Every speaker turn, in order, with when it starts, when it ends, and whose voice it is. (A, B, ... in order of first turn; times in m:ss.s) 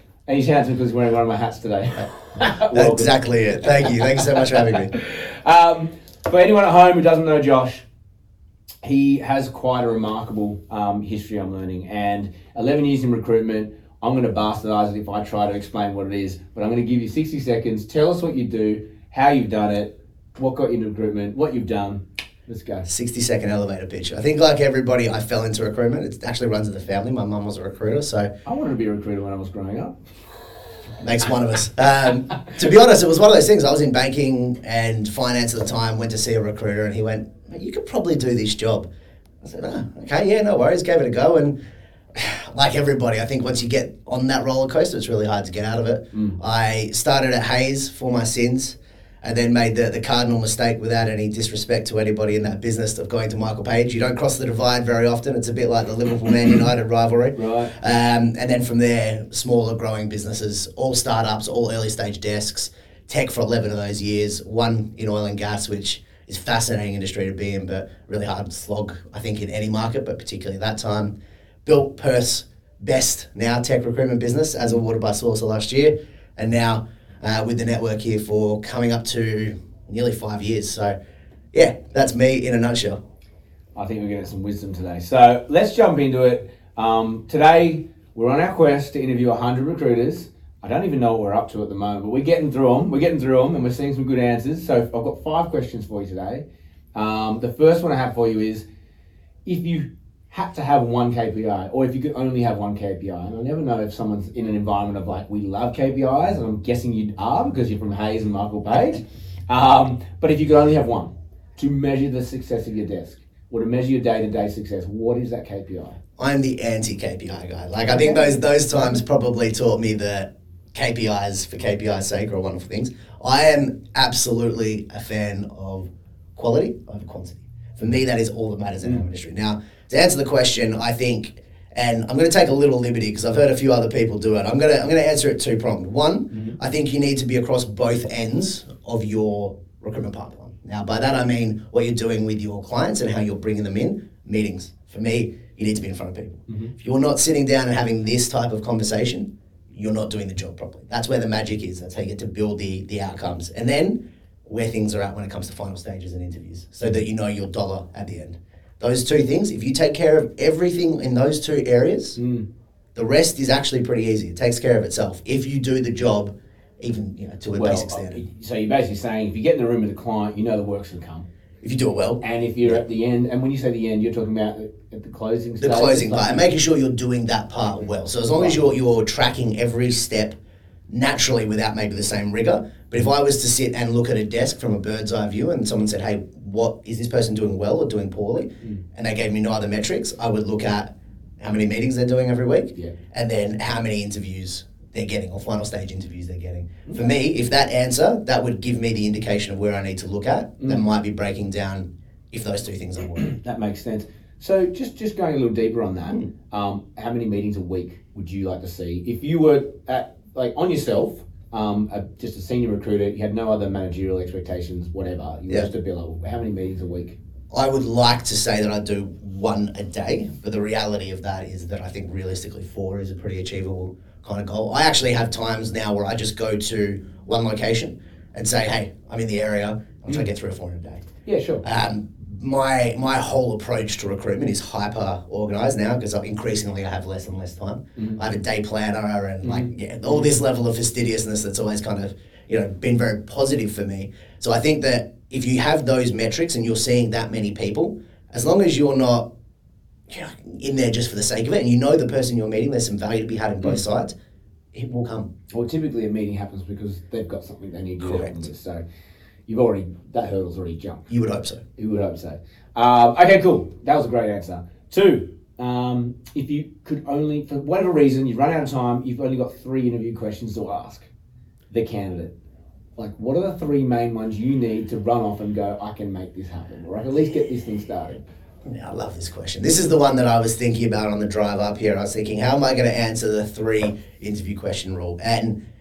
0:00.3-0:07.8 A
0:02.7-0:04.9 B
0:08.8-0:22.9 A
0:22.9-0:28.3 B
0:28.4-0:30.1 A
0:31.0-0:38.9 B
0:39.4-0:41.5 B
0:42.1-1:20.9 B
0:46.1-0:46.4 A
0:57.4-0:57.7 A
1:21.5-1:23.0 B
1:23.7-1:36.4 A
1:36.9-1:38.6 A
1:39.4-1:56.0 A
1:56.2-2:42.2 B
1:57.8-1:58.3 A
2:16.3-2:16.6 A
2:26.5-2:26.7 A
2:42.2-2:42.4 A
2:42.9-2:48.2 B
2:47.6-2:51.3 A
2:51.6-2:52.8 B
2:52.2-2:56.5 A
2:55.6-3:00.4 B
2:58.3-2:58.6 A
3:00.9-3:23.3 B
3:16.9-3:17.1 A
3:23.2-3:37.2 A
3:37.5-3:51.1 B
3:51.2-3:51.6 A
3:51.6-4:09.3 B
3:58.0-3:58.2 A
3:59.4-4:00.4 A
4:10.1-4:14.1 B
4:14.7-4:15.3 B
4:15.5-4:18.8 A
4:18.0-4:18.5 B
4:19.5-4:21.1 A
4:21.1-4:21.6 B
4:21.8-4:31.1 A
4:31.7-4:32.3 A
4:33.0-4:38.2 A
4:38.6-4:45.6 B